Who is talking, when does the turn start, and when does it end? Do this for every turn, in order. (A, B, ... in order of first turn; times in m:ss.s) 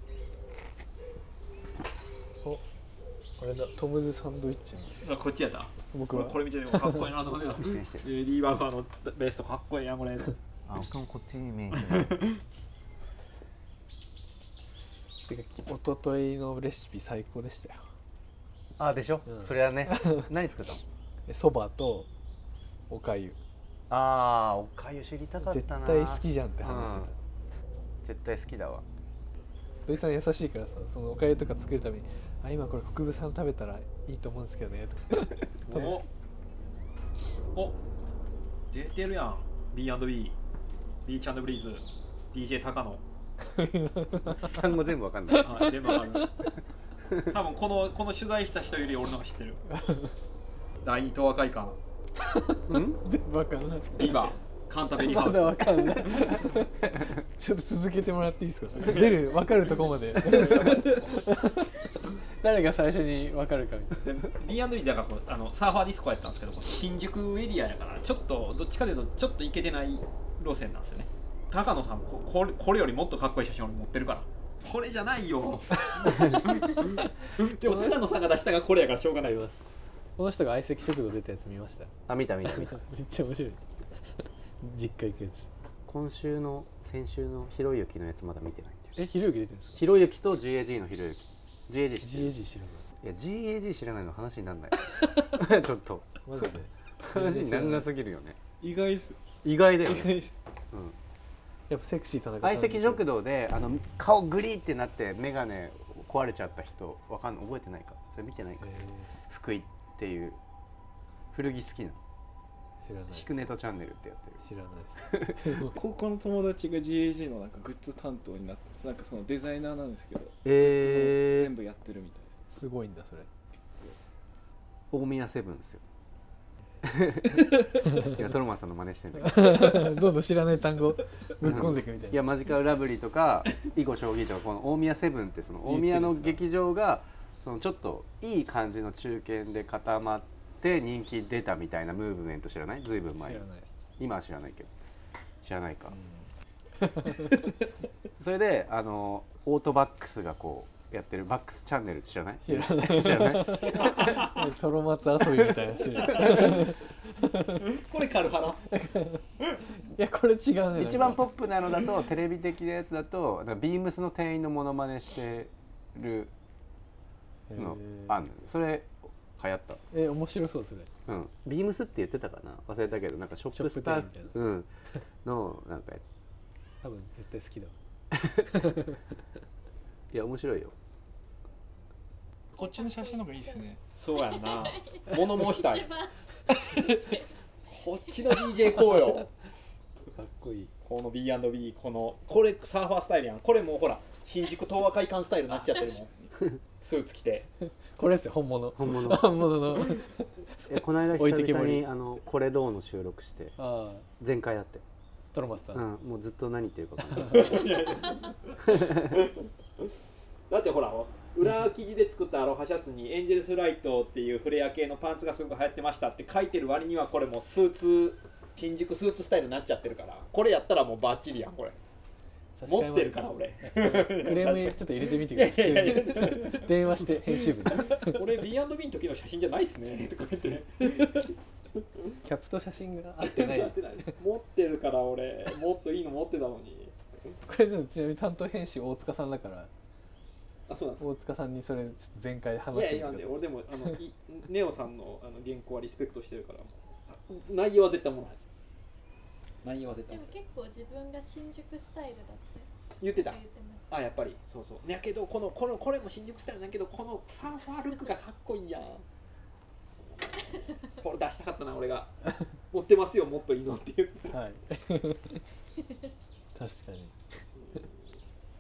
0:03.4-0:05.0 A
0:05.0-0:10.4 B
0:05.9-0:07.0 A
0:07.6-0:08.1 C
0:10.7-0:12.3 C
0:15.3-0:17.8 A
0:18.8-0:20.8 C
0:19.3-0:20.3 A
0:21.3-0:22.1 A
0:22.9-0:23.4 A
0:23.9-0:27.1 C
0:25.4-0:27.1 A
0:28.0-0:28.8 C
0:29.9-0:35.3 A
0:35.7-0:36.1 B
0:38.7-0:40.4 B
0:41.0-0:43.0 B
0:43.6-0:44.5 A
0:44.3-0:45.5 C
0:45.4-0:46.3 B
0:47.3-0:49.6 B
0:49.7-0:50.1 A
0:50.8-0:51.8 B
0:52.3-0:54.1 A
0:52.7-0:53.0 C
0:53.9-0:56.4 B
0:55.0-0:56.7 A
0:57.4-1:01.9 A
0:58.8-0:59.2 B
1:00.2-1:01.2 B
1:02.4-1:04.0 A
1:04.0-1:19.8 B
1:20.2-1:21.9 A
1:22.1-1:22.8 C
1:22.4-1:23.6 A
1:24.6-1:25.5 A
1:25.9-1:29.0 C
1:29.0-1:29.9 A
1:29.8-1:32.3 C
1:32.0-1:32.8 A
1:33.0-1:36.1 C
1:36.2-1:37.8 A
1:37.1-1:38.4 C
1:38.6-1:39.2 D
1:39.4-1:40.2 C
1:39.8-1:40.3 D
1:41.7-1:43.0 A
1:42.4-1:48.7 C
1:48.6-1:49.1 A
1:49.3-1:50.4 C
1:51.3-1:52.0 C
1:52.8-1:53.5 A
1:53.1-1:54.4 C
1:54.4-1:55.7 A
1:55.0-1:55.4 C
1:55.7-2:02.3 D
2:00.4-2:01.5 C
2:02.5-2:03.3 A
2:04.9-2:05.8 C
2:06.8-2:09.9 C
2:09.2-2:12.2 A
2:11.4-2:23.4 C
2:15.7-2:16.4 A
2:23.2-2:23.7 A
2:24.0-2:24.7 C
2:25.4-2:26.0 C
2:25.9-2:26.2 A
2:26.8-2:27.4 A
2:28.2-2:34.2 C
2:32.4-2:37.5 A
2:33.8-2:34.3 B
2:36.0-2:36.7 B
2:37.6-2:38.6 B
2:38.7-2:39.2 A
2:39.8-2:41.2 A
2:40.8-2:46.3 C
2:47.5-2:48.2 A
2:47.6-2:49.8 C
2:49.9-2:50.9 A
2:51.1-2:54.7 C
2:53.5-2:54.4 A
2:55.2-2:56.0 C
2:56.8-2:57.7 A
2:58.3-2:58.6 C
2:58.6-2:58.9 A
3:00.1-3:00.7 C
3:02.5-3:03.8 D
3:02.6-3:03.5 E
3:04.0-3:09.3 B
3:04.7-3:05.0 E
3:05.8-3:06.1 E
3:10.1-3:10.7 A
3:10.8-3:16.1 B
3:16.8-3:17.5 B
3:18.0-3:20.2 A
3:18.8-3:19.4 C
3:20.7-3:23.6 C
3:21.1-3:21.9 A
3:23.6-3:24.1 A
3:24.2-3:24.8 C
3:25.3-3:25.8 A
3:25.7-3:27.7 C
3:27.2-3:29.3 B
3:28.7-3:29.1 C
3:30.5-3:41.8 B
3:42.6-3:48.2 A
3:42.7-3:51.3 B
3:52.2-3:54.1 A
3:53.2-3:56.9 B
3:57.5-3:59.7 A
4:00.7-4:01.0 B
4:01.0-4:04.0 A
4:02.7-4:08.5 B
4:09.6-4:10.4 B
4:10.1-4:14.0 E
4:13.0-4:19.0 B
4:19.9-4:22.1 B
4:22.7-4:24.4 B
4:24.3-4:25.4 A
4:26.6-4:27.1 A
4:27.6-4:27.9 B